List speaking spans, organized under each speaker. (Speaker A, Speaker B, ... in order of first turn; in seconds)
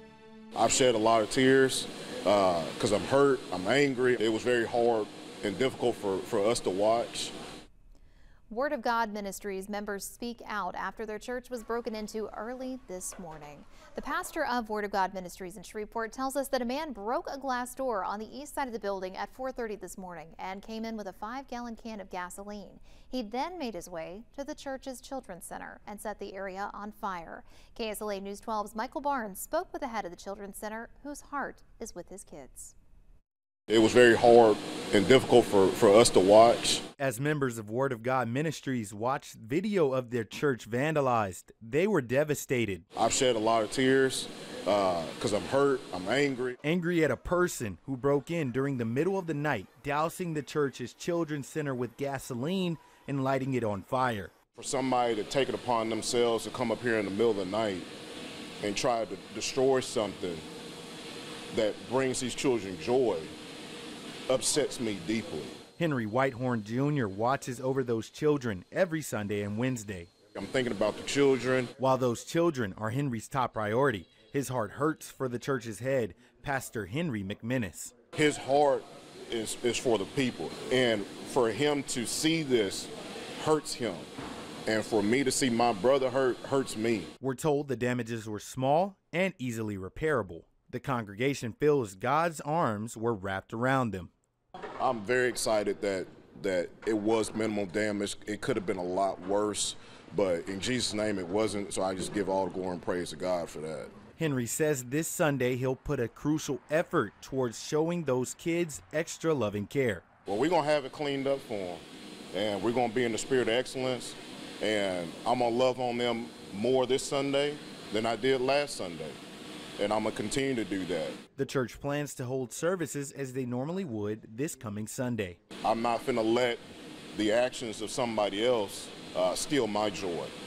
Speaker A: 0.6-7.3, 33.7-36.8, 43.0-46.6, 54.6-57.9, 58.6-60.5, 61.5-63.3, 64.3-65.6, 70.3-71.7, 78.1-84.1, 84.7-87.1, 94.8-103.9, 110.3-119.2, 119.8-121.2, 125.6-126.6, 127.1-130.3
Speaker B: 8.5-32.8
Speaker C: 37.0-42.9, 46.6-54.3, 65.8-70.1, 71.8-78.0, 87.2-94.1, 104.2-110.0, 121.4-125.4